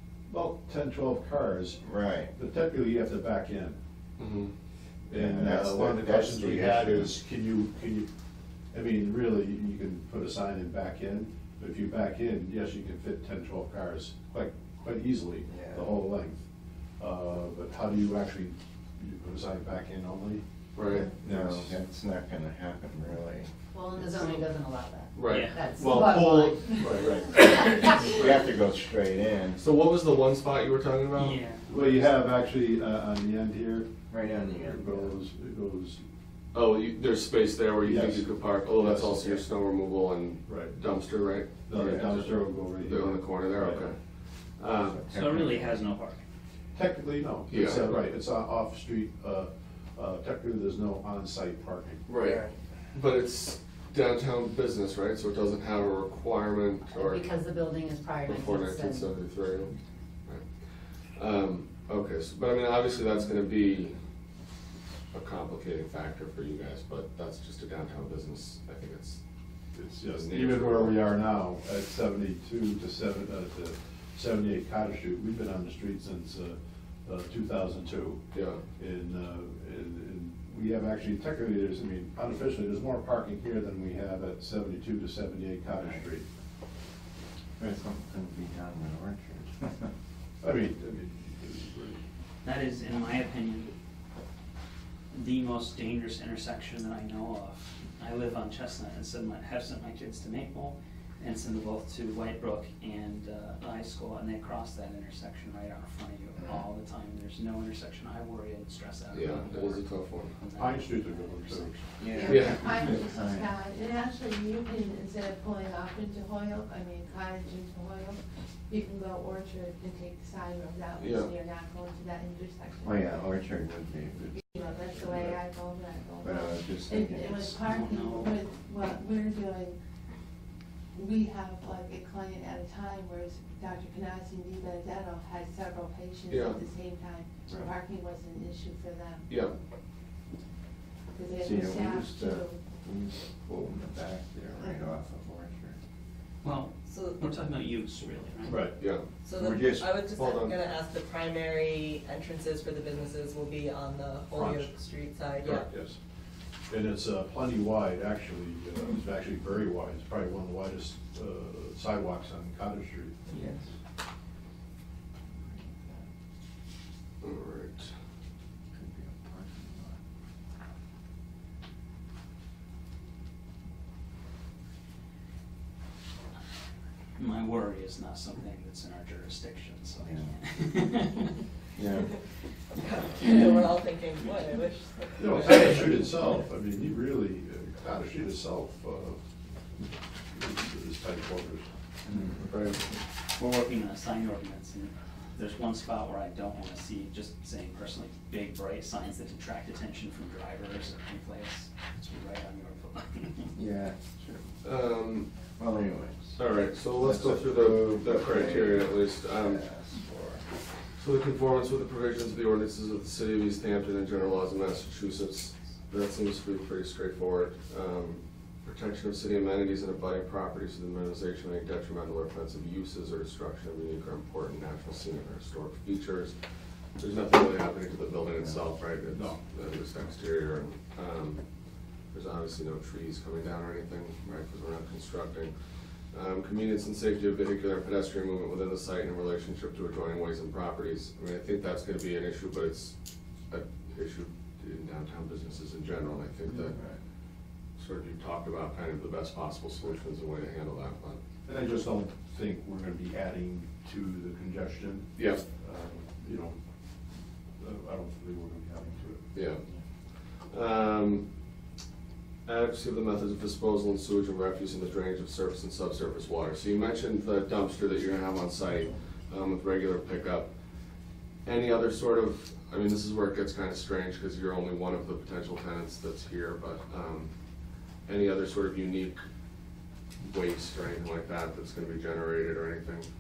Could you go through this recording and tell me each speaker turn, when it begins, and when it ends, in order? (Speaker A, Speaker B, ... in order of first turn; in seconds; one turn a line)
Speaker A: 0.3-1.8
Speaker B: 1.8-2.3
Speaker A: 2.3-3.8
Speaker C: 4.2-4.5
Speaker A: 5.1-8.1
Speaker B: 5.1-7.2
Speaker A: 8.7-16.4
Speaker B: 15.5-16.0
Speaker A: 17.0-21.8
Speaker C: 20.7-21.1
Speaker B: 21.2-23.5
Speaker D: 23.7-28.0
Speaker C: 25.1-27.6
Speaker E: 25.2-25.7
Speaker A: 26.0-27.2
Speaker B: 28.0-29.6
Speaker C: 29.6-32.1
Speaker E: 31.1-31.6
Speaker A: 31.7-33.9
Speaker B: 34.1-35.1
Speaker A: 34.5-36.0
Speaker C: 36.5-45.0
Speaker A: 37.8-39.5
Speaker A: 40.5-40.8
Speaker A: 41.7-43.9
Speaker B: 41.8-42.1
Speaker B: 44.9-45.8
Speaker E: 45.1-46.2
Speaker A: 46.7-52.1
Speaker C: 47.5-48.1
Speaker C: 52.1-57.5
Speaker D: 56.9-59.1
Speaker C: 58.2-59.8
Speaker C: 60.3-64.0
Speaker C: 65.1-69.2
Speaker A: 69.7-78.2
Speaker C: 70.1-71.1
Speaker C: 78.3-78.6
Speaker A: 78.8-86.2
Speaker B: 87.6-89.9
Speaker A: 90.4-92.0
Speaker E: 92.4-93.7
Speaker E: 95.1-112.1
Speaker C: 109.1-110.3
Speaker A: 110.5-111.8
Speaker B: 112.0-113.5
Speaker F: 112.1-123.1
Speaker C: 112.3-112.9
Speaker C: 121.0-121.3
Speaker B: 122.8-125.3
Speaker F: 124.4-129.8
Speaker B: 126.2-127.7
Speaker E: 127.7-128.3
Speaker F: 130.9-139.3
Speaker C: 136.3-136.6
Speaker B: 137.5-137.7
Speaker C: 139.3-139.6
Speaker F: 141.1-142.6
Speaker B: 141.3-145.8
Speaker E: 146.4-148.7
Speaker G: 146.8-147.3
Speaker A: 148.4-148.8
Speaker C: 148.8-149.1
Speaker G: 149.2-155.7
Speaker B: 149.3-150.0
Speaker C: 150.0-150.6
Speaker A: 154.3-154.7
Speaker A: 155.4-156.0
Speaker A: 156.7-163.2
Speaker B: 163.3-163.7
Speaker B: 165.5-166.0
Speaker C: 167.2-167.9
Speaker B: 168.7-170.0
Speaker E: 177.2-181.4
Speaker B: 180.0-180.3
Speaker B: 181.8-182.1
Speaker G: 182.8-185.8
Speaker A: 185.2-189.2
Speaker A: 190.3-191.7
Speaker A: 192.3-192.9
Speaker E: 193.3-203.6
Speaker B: 203.6-204.5
Speaker C: 204.6-205.3
Speaker B: 205.6-206.4
Speaker C: 206.4-209.6
Speaker B: 206.9-210.5
Speaker C: 211.0-226.3
Speaker C: 227.0-231.4
Speaker A: 229.0-229.4
Speaker C: 232.1-242.9
Speaker C: 243.5-246.8
Speaker B: 246.5-247.0
Speaker C: 247.8-251.2
Speaker A: 251.4-256.6
Speaker C: 255.2-255.4
Speaker A: 257.6-259.2
Speaker C: 259.3-259.6
Speaker C: 260.1-261.3
Speaker C: 262.5-270.5
Speaker C: 271.4-277.3
Speaker C: 278.1-279.2
Speaker C: 280.2-283.1